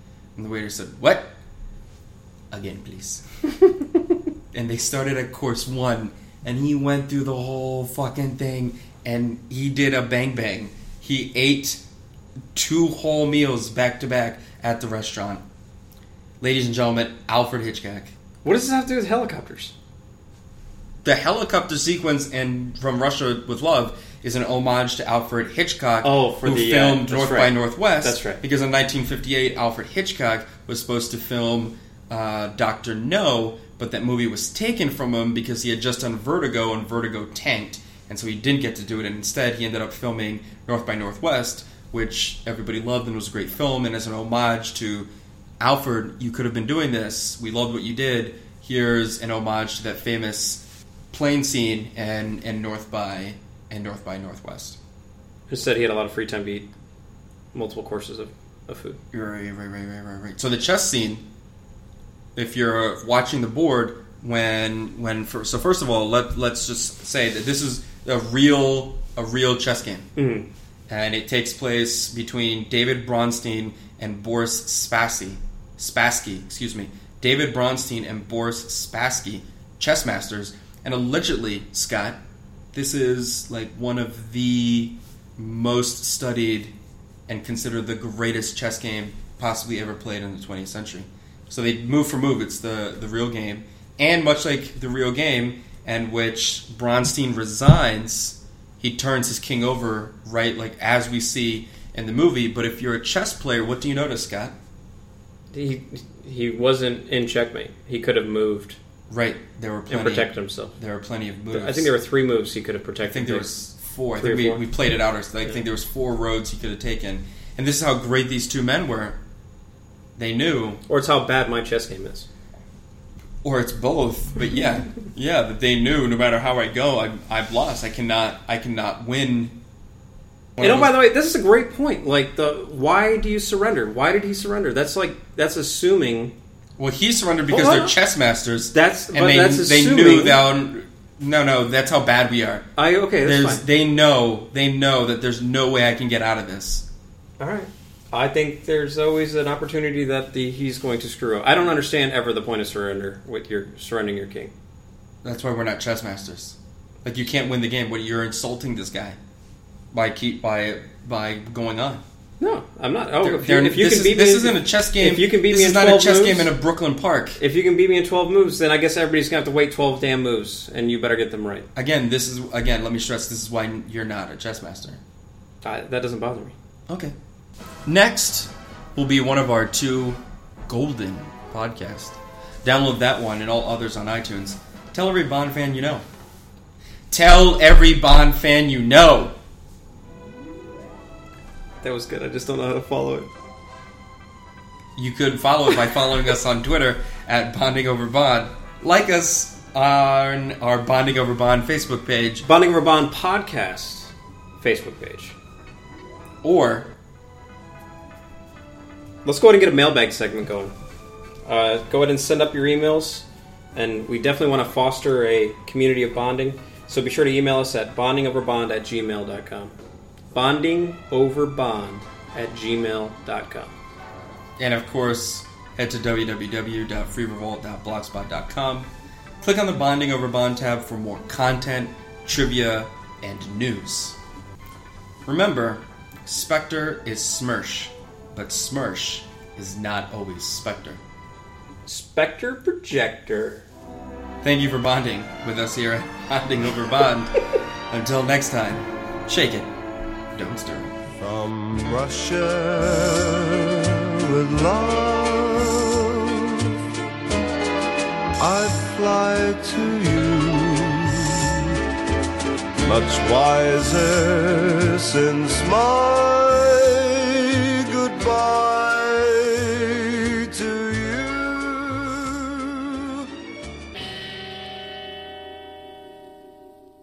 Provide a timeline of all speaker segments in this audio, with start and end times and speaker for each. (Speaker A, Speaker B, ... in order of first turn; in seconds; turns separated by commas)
Speaker A: 0.3-1.3, Speaker A: 2.5-3.2, Speaker A: 4.5-11.8, Speaker A: 12.5-15.4, Speaker A: 16.4-18.1, Speaker B: 18.4-19.7, Speaker A: 21.0-45.1, Speaker B: 26.0-28.4, Speaker A: 45.6-54.8, Speaker B: 55.5-56.7, Speaker B: 57.5-59.0, Speaker A: 59.1-61.2, Speaker A: 62.4-70.1, Speaker B: 70.2-70.5, Speaker A: 70.9-82.2, Speaker A: 82.7-86.7, Speaker A: 87.3-104.5, Speaker B: 105.5-108.8, Speaker A: 109.1-111.9, Speaker B: 109.9-110.7, Speaker B: 111.5-113.5, Speaker A: 113.1-119.2, Speaker B: 114.2-114.6, Speaker A: 120.2-120.8, Speaker B: 120.9-122.3, Speaker A: 123.4-129.6, Speaker A: 130.6-130.9, Speaker B: 130.6-136.3, Speaker A: 136.8-142.7, Speaker B: 137.5-137.9, Speaker B: 138.7-140.4, Speaker B: 142.8-143.6, Speaker A: 143.2-146.8, Speaker B: 147.4-154.5, Speaker A: 155.2-159.2, Speaker A: 159.9-162.0, Speaker B: 162.4-166.5, Speaker A: 163.2-167.4, Speaker B: 167.4-171.7, Speaker A: 171.7-175.0, Speaker B: 175.6-176.5, Speaker A: 176.9-177.1, Speaker A: 177.8-186.0, Speaker A: 187.1-189.3, Speaker B: 191.8-193.3, Speaker A: 194.9-202.4, Speaker B: 202.4-205.3, Speaker A: 206.4-206.9, Speaker B: 209.2-210.7, Speaker B: 211.4-219.7, Speaker B: 220.3-223.7, Speaker A: 224.6-228.9, Speaker A: 229.4-234.2, Speaker A: 235.2-241.0, Speaker B: 241.8-243.7, Speaker A: 244.4-247.3, Speaker A: 247.9-249.7, Speaker A: 250.3-250.9, Speaker C: 251.2-256.8, Speaker C: 258.4-261.7, Speaker C: 262.8-273.1